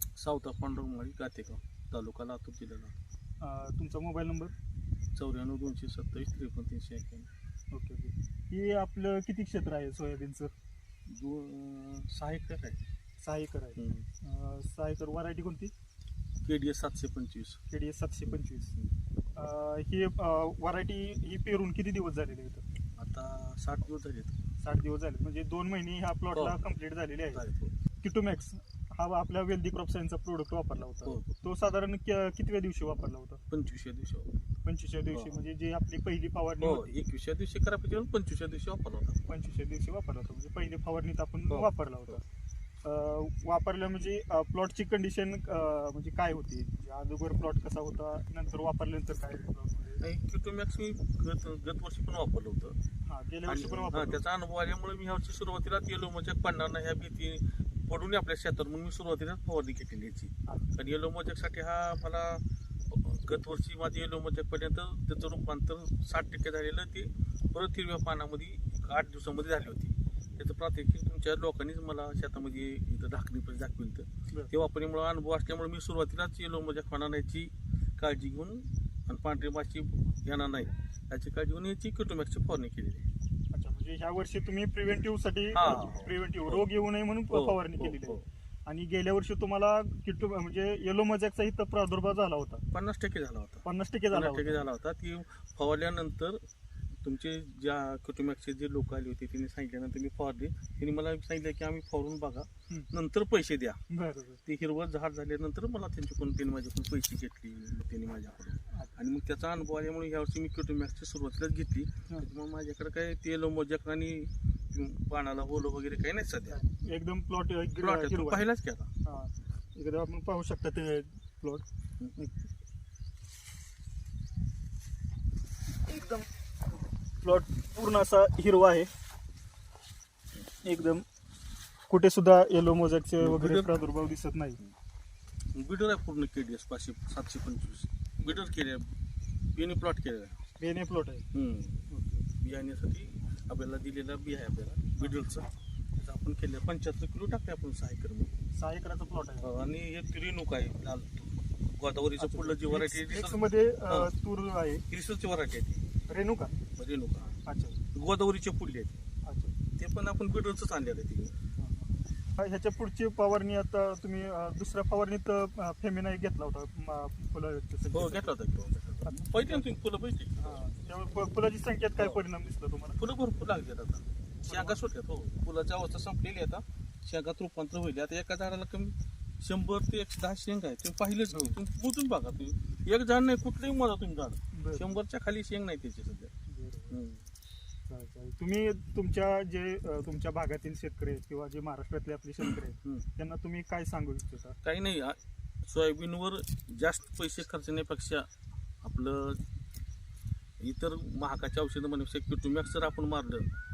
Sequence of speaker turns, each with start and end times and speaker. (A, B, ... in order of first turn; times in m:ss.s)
0:00.2-0:02.9 A
0:03.4-0:04.5 B
0:05.2-0:07.3 A
0:07.7-0:10.5 B
0:11.1-0:12.8 A
0:13.2-0:15.7 B
0:13.8-0:14.1 A
0:16.4-0:17.6 A
0:17.7-0:18.7 B
0:18.3-0:18.9 A
0:19.4-0:22.6 B
0:23.0-0:24.4 A
0:24.6-0:27.4 B
0:27.3-0:27.7 A
0:28.0-0:33.4 B
0:31.0-0:31.4 A
0:33.5-0:34.4 A
0:34.6-0:37.0 B
0:35.1-0:35.4 A
0:36.6-0:39.2 A
0:39.3-0:42.2 B
0:42.8-0:50.0 B
0:50.0-0:52.8 A
0:53.1-0:54.2 B
0:53.5-1:23.1 A
1:23.5-1:32.6 B
1:25.5-1:26.7 A
1:27.3-1:28.2 A
1:32.7-1:36.4 A
1:33.6-1:34.7 B
1:37.0-1:43.8 A
1:43.9-1:44.4 B
1:44.5-1:56.6 A
1:56.5-1:58.5 B
1:57.8-1:58.9 A
1:59.0-2:02.5 B
2:05.8-2:06.3 B
2:07.2-2:08.9 B
2:10.6-2:11.0 B
2:11.9-2:14.6 B
2:13.2-2:13.7 A
2:15.6-2:18.9 A
2:19.6-2:20.4 A
2:20.6-2:21.3 B
2:21.3-2:21.8 A
2:21.9-2:22.3 B
2:22.4-2:28.3 A
2:28.6-2:29.6 B
2:29.4-2:34.1 A
2:32.2-2:34.8 B
2:34.9-2:36.0 A
2:36.1-2:36.6 B
2:36.8-2:37.4 A
2:37.4-2:37.8 B
2:37.9-2:39.0 A
2:39.2-2:39.6 B
2:39.8-2:41.4 A
2:41.6-2:48.4 B
2:47.9-2:50.6 A
2:49.0-2:49.7 B
2:50.4-2:53.0 B
2:53.0-3:06.3 A
2:54.4-2:54.8 B
3:01.3-3:01.6 B
3:04.5-3:05.0 B
3:06.5-3:07.0 B
3:06.9-3:07.2 A
3:07.9-3:14.6 B
3:14.6-3:18.3 A
3:18.8-3:19.4 A
3:20.6-3:23.5 A